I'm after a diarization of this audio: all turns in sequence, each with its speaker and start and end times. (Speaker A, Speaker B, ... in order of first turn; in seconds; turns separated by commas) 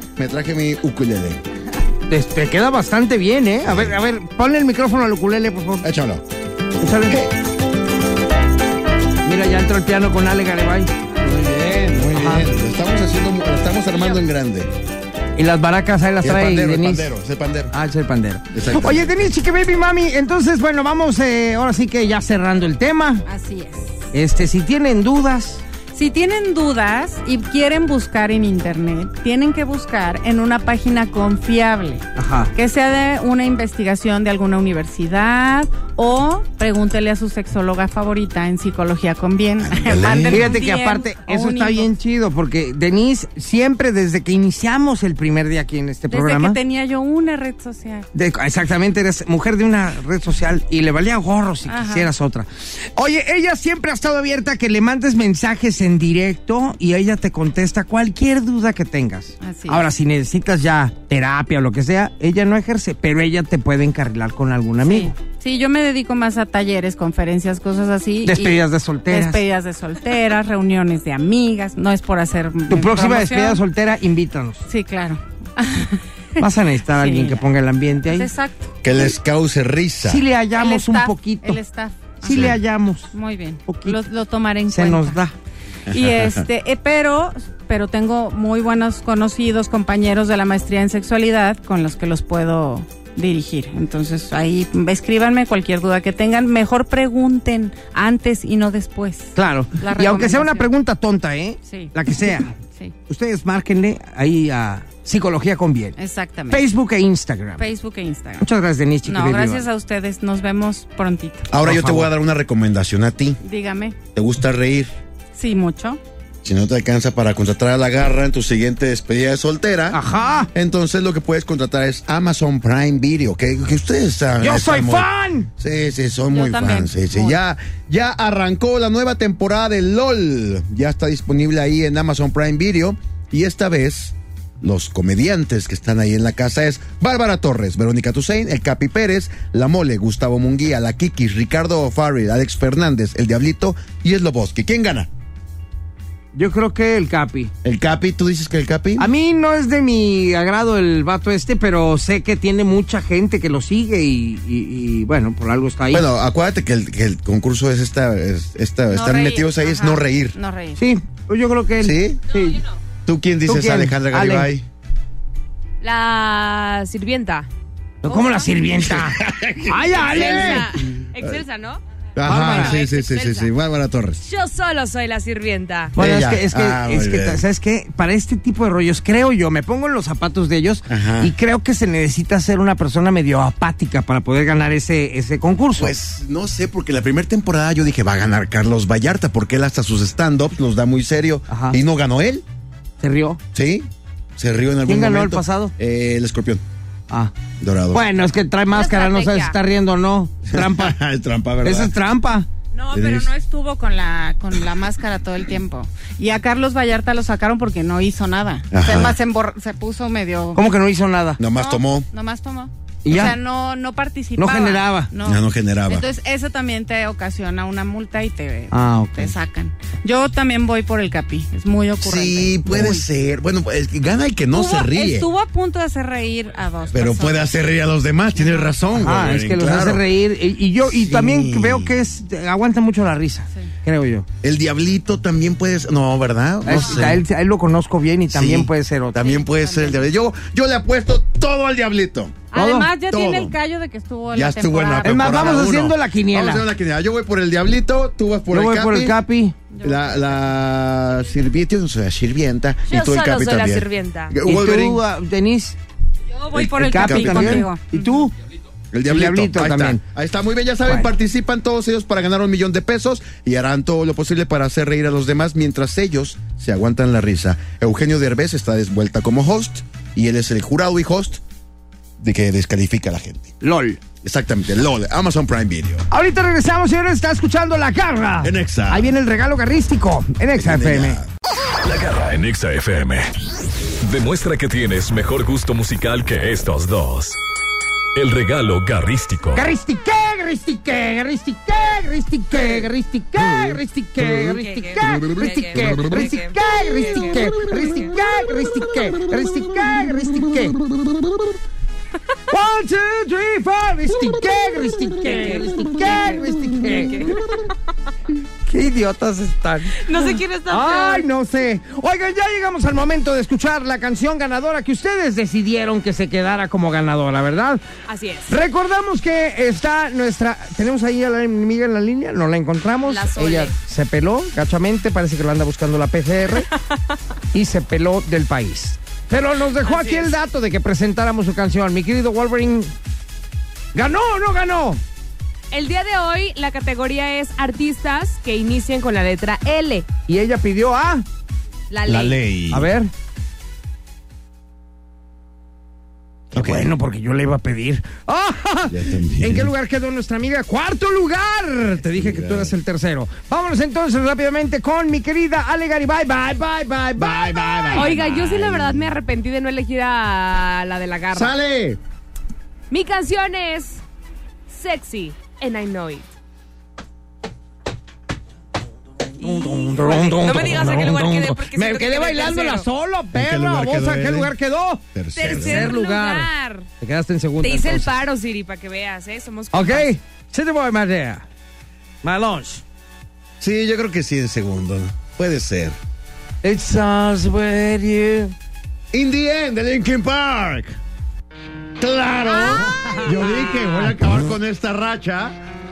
Speaker A: 0.2-1.4, Speaker B: 2.1-5.8, Speaker A: 3.6-4.0, Speaker A: 5.8-6.2, Speaker B: 6.8-7.3, Speaker B: 9.2-10.9, Speaker A: 11.2-14.7, Speaker B: 12.0-12.5, Speaker B: 15.3-17.1, Speaker A: 16.2-17.7, Speaker B: 17.7-23.2, Speaker A: 18.5-19.3, Speaker C: 23.3-23.9, Speaker B: 24.1-25.6, Speaker C: 25.9-41.9, Speaker B: 32.1-32.5, Speaker A: 39.6-40.6, Speaker B: 40.2-46.6, Speaker C: 46.1-48.0, Speaker B: 48.1-65.1, Speaker C: 51.6-52.1, Speaker C: 59.4-59.9, Speaker C: 64.8-73.6, Speaker B: 68.2-69.4, Speaker B: 72.7-74.6, Speaker C: 74.7-76.0, Speaker B: 76.4-78.3, Speaker C: 76.9-77.4, Speaker C: 78.0-78.8, Speaker A: 78.8-80.2, Speaker B: 80.0-81.6, Speaker C: 80.5-85.2, Speaker B: 82.2-83.1, Speaker A: 82.3-82.5, Speaker B: 83.7-84.0, Speaker B: 84.7-85.3, Speaker C: 85.9-100.7, Speaker A: 85.9-86.2, Speaker B: 99.3-102.5, Speaker C: 101.7-101.9, Speaker C: 102.5-102.9, Speaker B: 103.1-106.0, Speaker C: 106.0-106.6, Speaker B: 106.5-107.7, Speaker C: 107.6-108.5, Speaker B: 108.4-109.6, Speaker C: 109.0-111.5, Speaker A: 111.5-113.4, Speaker B: 111.6-112.1, Speaker C: 113.4-114.0, Speaker A: 114.1-114.9, Speaker C: 115.3-116.0, Speaker A: 116.4-120.0, Speaker B: 119.9-120.5, Speaker C: 120.2-120.5, Speaker A: 120.5-145.1, Speaker B: 124.4-125.5, Speaker C: 126.3-127.4, Speaker B: 146.3-147.5, Speaker A: 147.6-149.1, Speaker B: 149.0-156.1, Speaker A: 155.9-160.4, Speaker C: 158.9-160.8, Speaker B: 160.8-162.6, Speaker A: 161.8-162.2, Speaker A: 163.0-164.7, Speaker B: 163.5-164.5, Speaker D: 165.8-167.5, Speaker B: 168.0-170.7, Speaker C: 168.1-168.4, Speaker A: 168.8-171.4, Speaker D: 170.0-171.8, Speaker A: 172.2-174.2, Speaker B: 172.2-172.8, Speaker D: 172.3-173.5, Speaker D: 174.2-175.9, Speaker A: 175.9-177.4, Speaker B: 175.9-185.9, Speaker A: 180.9-181.3, Speaker A: 185.8-192.4, Speaker B: 191.5-191.8, Speaker B: 193.0-193.4, Speaker A: 193.5-196.6, Speaker B: 194.9-195.7, Speaker A: 197.6-198.1, Speaker B: 197.9-201.0, Speaker D: 198.7-199.6, Speaker A: 200.5-201.9, Speaker B: 201.6-202.5, Speaker C: 202.7-210.6, Speaker A: 202.9-203.3, Speaker A: 208.7-209.2, Speaker B: 210.5-211.4, Speaker A: 211.4-212.1, Speaker C: 211.5-223.0, Speaker B: 213.0-213.3, Speaker B: 214.4-215.1, Speaker A: 215.2-216.1, Speaker B: 218.7-219.3, Speaker A: 222.0-225.3, Speaker C: 224.5-227.5, Speaker A: 226.9-230.0, Speaker C: 228.3-228.8, Speaker B: 228.9-234.2, Speaker A: 230.8-231.9, Speaker A: 234.4-237.2, Speaker B: 236.6-239.3, Speaker C: 236.7-237.0, Speaker A: 238.3-242.5, Speaker C: 239.2-240.1, Speaker C: 242.5-245.7, Speaker B: 242.5-242.9, Speaker A: 243.1-243.5, Speaker A: 244.3-249.2, Speaker B: 245.0-246.7, Speaker B: 248.5-249.6, Speaker C: 249.7-250.4, Speaker A: 249.8-255.0, Speaker D: 252.9-254.3, Speaker B: 254.4-255.8, Speaker C: 256.4-258.3, Speaker B: 256.5-258.3, Speaker A: 256.5-257.7, Speaker A: 258.9-271.4, Speaker B: 259.1-260.0, Speaker A: 272.2-273.6, Speaker B: 273.6-274.0, Speaker A: 274.2-276.1, Speaker B: 276.1-281.2, Speaker A: 278.4-279.1, Speaker A: 280.5-281.3, Speaker E: 281.8-283.3, Speaker E: 284.0-287.4, Speaker E: 288.1-289.7, Speaker B: 289.5-300.8, Speaker D: 294.4-298.1, Speaker A: 295.0-295.9, Speaker B: 302.5-307.4, Speaker D: 305.2-307.5, Speaker B: 308.7-317.8, Speaker D: 310.0-311.3, Speaker D: 318.1-318.5, Speaker B: 318.5-326.7, Speaker D: 323.0-323.7, Speaker B: 327.5-332.9, Speaker D: 329.8-330.3, Speaker B: 333.9-335.0, Speaker D: 335.7-340.1, Speaker B: 340.3-341.2, Speaker D: 341.9-342.4, Speaker A: 342.1-342.9, Speaker B: 342.7-343.1, Speaker A: 346.5-346.9, Speaker B: 346.5-358.3, Speaker A: 348.9-349.7, Speaker A: 352.1-352.8, Speaker A: 357.2-359.1, Speaker D: 357.9-361.5, Speaker A: 361.3-362.0, Speaker D: 362.9-364.0, Speaker D: 364.7-366.3, Speaker B: 369.4-376.5, Speaker D: 369.4-372.9, Speaker A: 373.3-374.5, Speaker A: 375.1-376.0, Speaker D: 375.3-376.9, Speaker B: 377.0-378.1, Speaker D: 377.6-380.1, Speaker B: 379.7-381.4, Speaker B: 382.2-382.8, Speaker A: 383.6-386.0, Speaker B: 386.6-388.5, Speaker A: 389.1-391.0, Speaker A: 392.0-395.6, Speaker B: 392.7-394.5